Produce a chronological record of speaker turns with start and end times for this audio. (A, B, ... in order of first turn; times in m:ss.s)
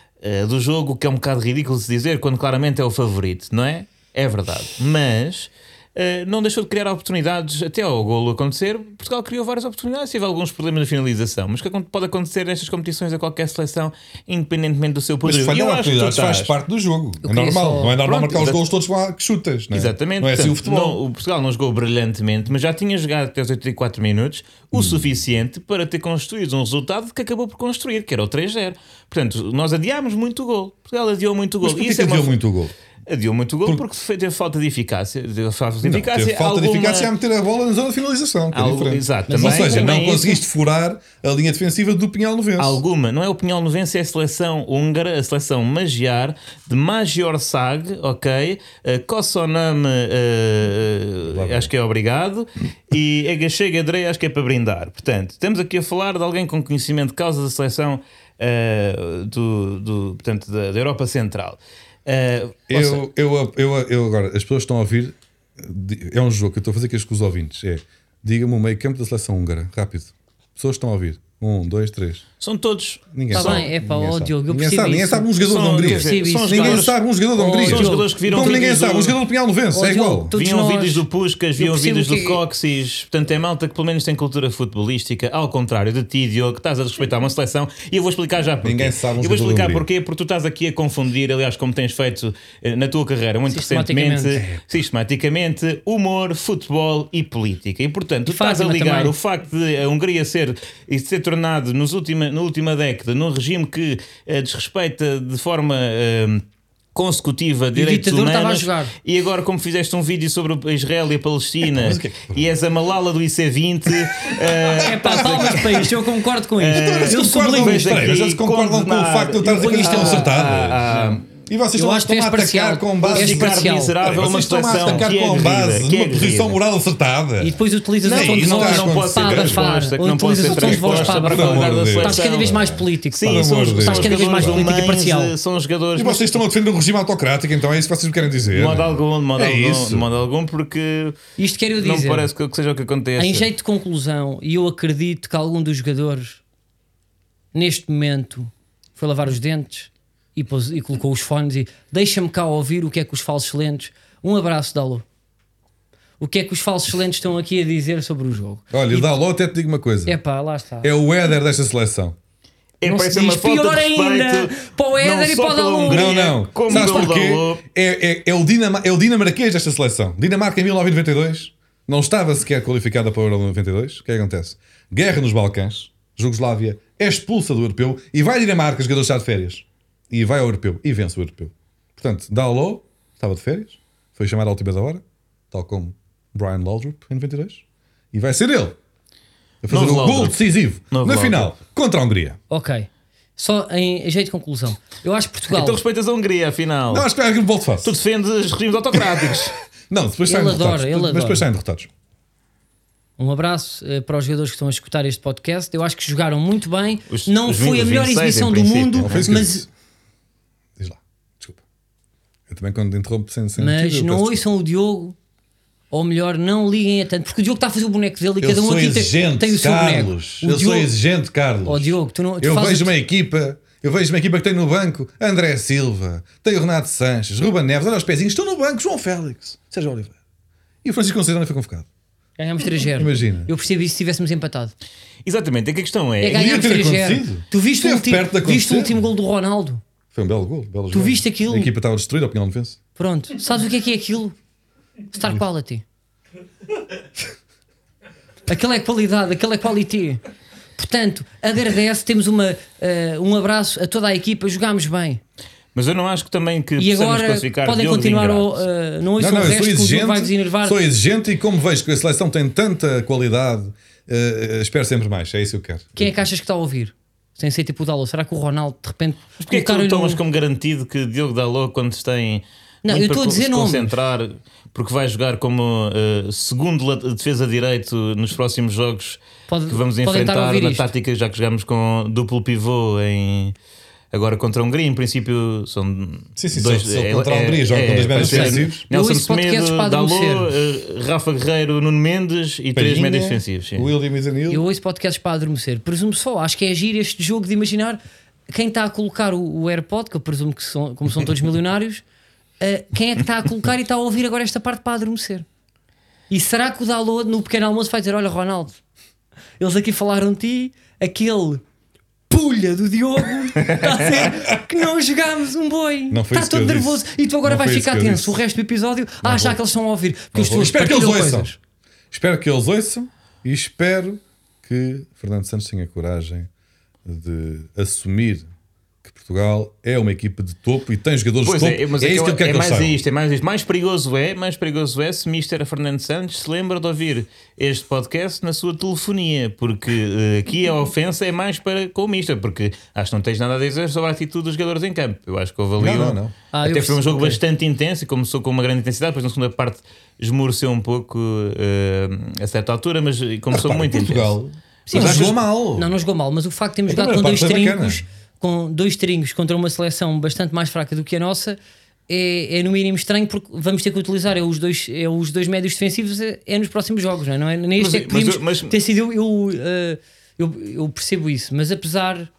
0:00.2-0:16.5 A
0:15.2-0:21.0 B
0:17.2-0:18.4 C
0:18.3-0:18.6 A
0:19.7-0:32.3 A
0:24.7-0:25.1 B
0:31.6-0:32.7 B
0:33.1-0:37.1 A
0:35.8-0:42.8 B
0:38.5-0:40.4 A
0:39.3-0:39.9 C
0:42.6-1:03.0 A
0:51.2-0:51.7 B
1:02.7-1:12.2 B
1:12.4-1:13.7 A
1:13.1-1:20.3 B
1:13.3-1:18.7 C
1:15.4-1:19.2 A
1:19.7-1:21.0 C
1:20.3-1:46.4 A
1:21.6-1:22.4 C
1:28.6-1:29.8 B
1:33.5-1:34.4 C
1:34.4-1:34.6 B
1:38.3-1:39.1 C
1:46.9-1:55.9 A
1:47.7-1:48.9 C
1:51.7-1:52.5 B
1:54.0-1:55.9 B
1:54.8-1:58.0 C
1:56.6-2:01.2 A
1:56.7-2:00.8 B
1:59.4-2:00.4 C
2:01.4-2:09.6 B
2:01.7-2:04.0 C
2:03.0-2:06.6 A
2:04.5-2:05.1 C
2:07.4-2:15.3 C
2:08.0-2:16.4 A
2:10.4-2:14.7 B
2:16.0-2:20.1 B
2:18.5-2:21.2 A
2:21.4-2:22.3 C
2:21.8-2:23.5 A
2:23.2-2:26.4 C
2:27.5-2:35.0 C
2:36.2-2:39.2 C
2:38.7-2:40.2 B
2:40.0-2:40.9 C
2:40.8-2:42.1 B
2:42.8-2:47.6 A
2:42.8-2:47.1 C
2:45.9-3:08.8 B
3:09.6-3:12.4 B
3:09.7-3:11.5 A
3:12.5-3:15.8 C
3:15.5-3:17.1 A
3:16.9-3:17.9 B
3:17.8-3:19.6 A
3:19.9-3:21.9 B
3:20.2-3:21.4 C
3:23.2-3:29.6 C
3:27.1-3:29.3 A
3:29.0-3:29.7 B
3:30.8-3:31.6 B
3:32.5-3:34.4 B
3:33.6-3:35.2 C
3:35.9-3:40.9 C
3:38.4-3:50.2 B
3:41.6-3:42.9 C
3:50.8-3:51.9 B
3:52.4-3:54.7 C
3:52.9-3:53.5 B
3:55.2-3:56.6 A
3:56.2-3:59.8 C
3:56.3-3:58.9 B
4:00.1-4:02.8 B
4:00.9-4:01.7 C
4:03.0-4:04.3 C
4:05.1-4:05.8 C
4:08.5-4:10.2 C
4:10.8-4:15.2 C
4:15.7-4:18.6 A
4:16.8-4:20.8 C
4:19.2-4:26.1 B
4:26.0-4:30.2 C
4:29.4-4:43.5 A
4:32.8-4:33.9 C
4:39.5-4:40.9 C
4:44.1-4:53.9 A
4:46.4-4:48.8 B
4:48.1-4:50.5 C
4:52.8-4:54.6 B
4:54.5-5:02.0 C
5:02.6-5:05.4 C
5:06.3-5:08.8 C
5:09.6-5:11.6 C
5:12.3-5:21.6 C
5:14.0-5:14.6 B
5:16.1-5:18.4 B
5:19.2-5:19.6 B
5:20.3-5:21.5 B
5:22.1-5:26.5 B
5:27.0-5:28.5 B
5:29.0-5:33.0 B
5:31.4-5:54.4 A
5:45.8-5:46.3 B
5:46.5-5:47.4 C
5:53.5-5:55.9 B
5:54.9-6:12.3 C
5:56.9-5:58.0 B
6:07.8-6:08.8 A